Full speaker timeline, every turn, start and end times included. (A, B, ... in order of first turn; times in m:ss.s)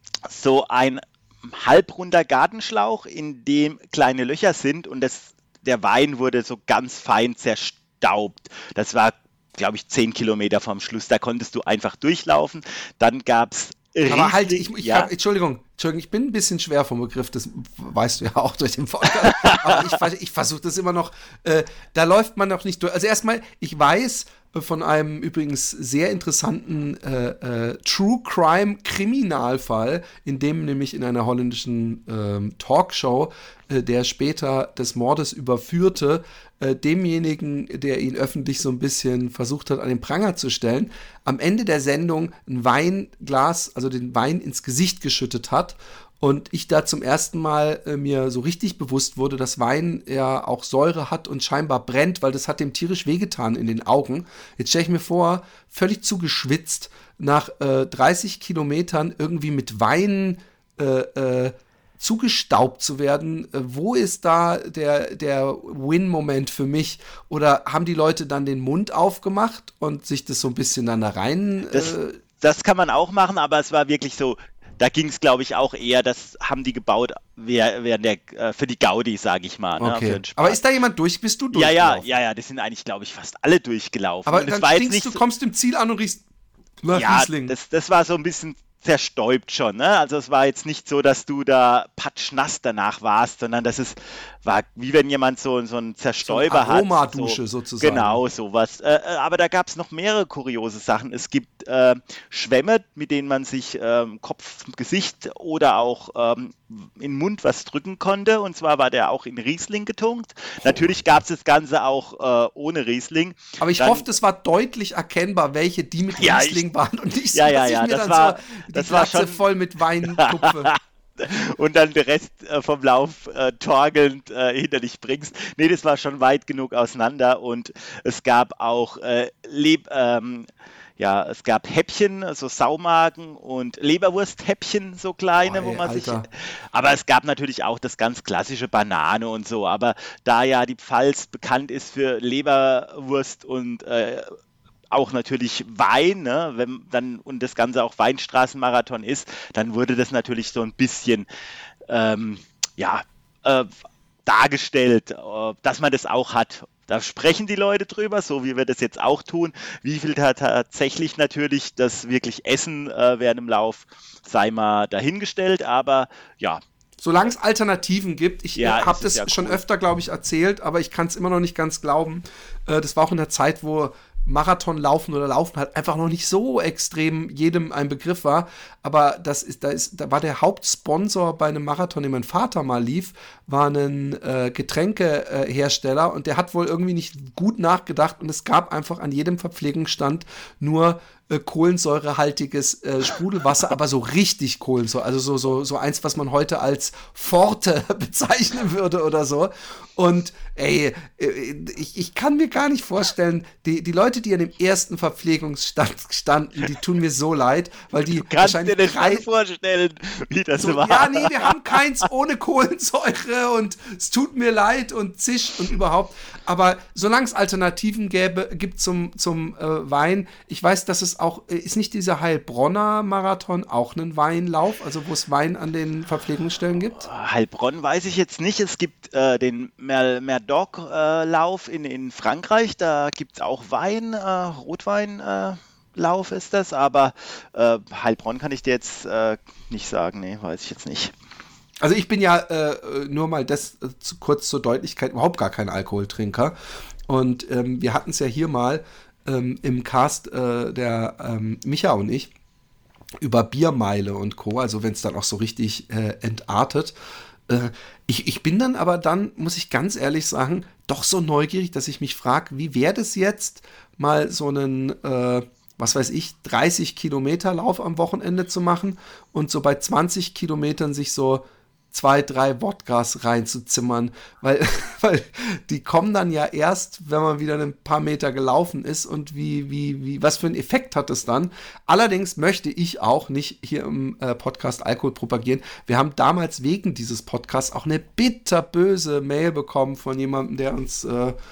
0:00.2-0:15.1 A
0:14.1-1:12.2 B
0:19.3-0:19.9 A
1:11.7-1:20.6 A
1:19.8-1:22.1 B
1:21.5-1:25.2 A
1:24.2-1:26.2 B
1:26.8-1:27.5 B
1:26.9-1:54.1 A
1:36.2-1:38.2 B
1:53.6-2:00.7 B
1:56.2-1:56.6 A
1:57.3-1:59.4 A
2:00.1-2:10.5 A
2:11.0-2:24.3 A
2:15.4-2:16.2 B
2:24.9-2:31.3 A
2:31.9-2:33.7 A
2:34.2-2:46.6 A
2:47.0-3:29.2 B
2:48.6-2:49.6 A
3:28.1-3:31.8 A
3:30.6-3:47.1 B
3:47.0-4:01.1 A
4:01.8-4:06.5 B
4:07.1-4:12.3 B
4:13.2-4:16.9 B
4:17.5-4:51.3 B